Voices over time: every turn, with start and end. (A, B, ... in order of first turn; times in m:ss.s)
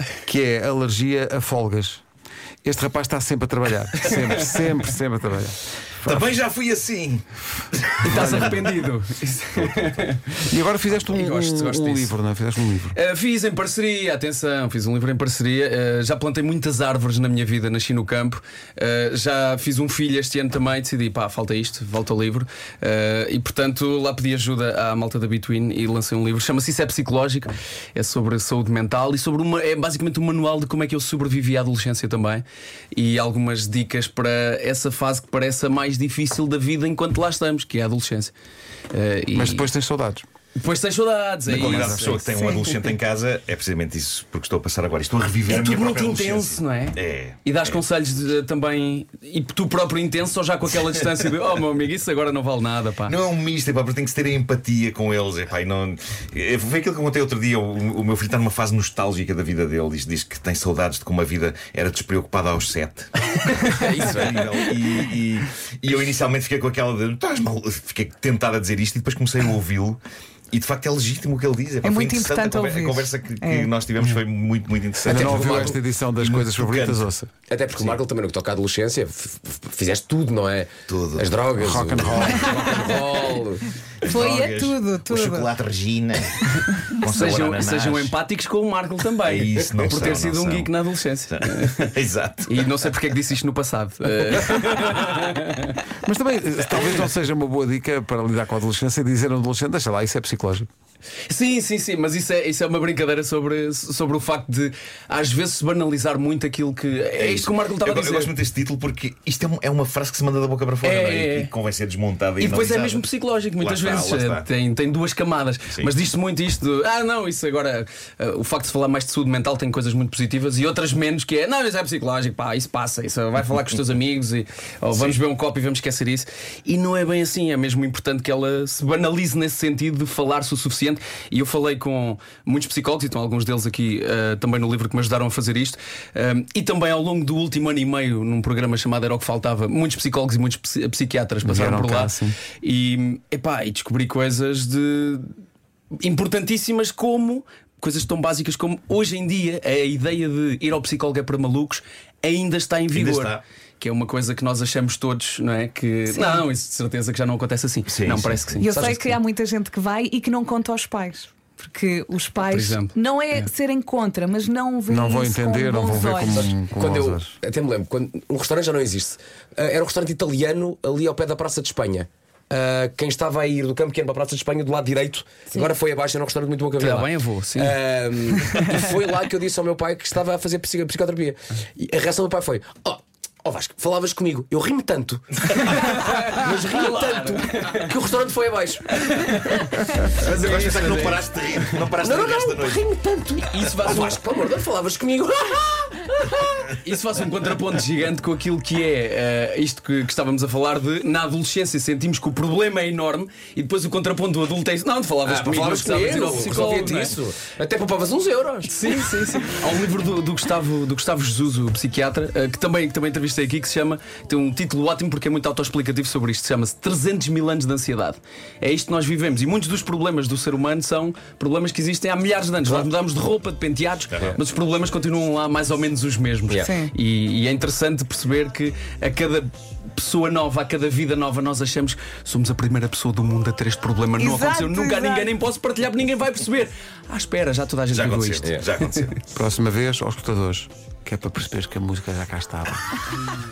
0:00.2-0:02.0 A
0:02.6-0:06.3 A
0:06.0-0:08.7 B
0:08.0-0:12.2 C
0:08.0-0:08.6 A
0:10.4-0:13.0 A
0:12.9-0:38.3 C
0:38.9-0:39.7 C
0:39.3-0:40.2 A
0:40.6-0:42.2 C
0:41.5-0:47.8 B
0:41.5-0:42.2 A
0:42.3-0:42.6 D
0:45.4-0:53.2 C
0:53.1-1:10.0 B
1:03.5-1:04.0 C
1:03.7-1:04.5 E
1:10.5-1:17.1 B
1:11.8-1:13.7 D
1:15.0-1:17.3 A
1:15.1-1:15.8 E
1:17.5-1:23.6 E
1:17.7-1:18.0 B
1:20.9-1:22.9 B
1:21.6-1:22.7 A
1:22.4-1:22.8 D
1:24.0-1:25.5 D
1:24.0-1:28.2 B
1:27.0-1:31.9 C
1:29.3-1:30.7 B
1:31.3-1:32.8 B
1:32.5-1:35.8 C
1:36.0-1:40.7 A
1:41.3-1:48.3 C
1:47.2-1:53.0 B
1:50.8-1:51.5 C
1:52.4-2:25.3 C
1:53.6-1:54.5 B
2:04.9-2:05.2 B
2:21.4-2:22.4 A
2:26.0-2:38.7 C
2:32.9-2:33.4 B
2:36.1-2:36.4 D
2:37.9-2:38.7 B
2:38.6-2:46.5 D
2:38.7-2:39.1 E
2:42.5-2:42.9 C
2:44.9-2:47.3 A
2:46.2-3:09.3 E
2:56.8-2:57.7 C
3:05.7-3:07.9 C
3:08.9-3:11.3 C
3:10.2-3:12.8 B
3:10.4-3:10.9 E
3:11.8-3:16.4 E
3:13.5-3:14.2 C
3:16.5-3:27.2 C
3:25.2-3:28.7 E
3:28.6-3:59.1 C
3:44.1-3:44.4 B
3:46.6-3:46.9 D
3:54.2-3:55.3 D
3:57.9-3:59.2 B
3:59.3-4:03.0 A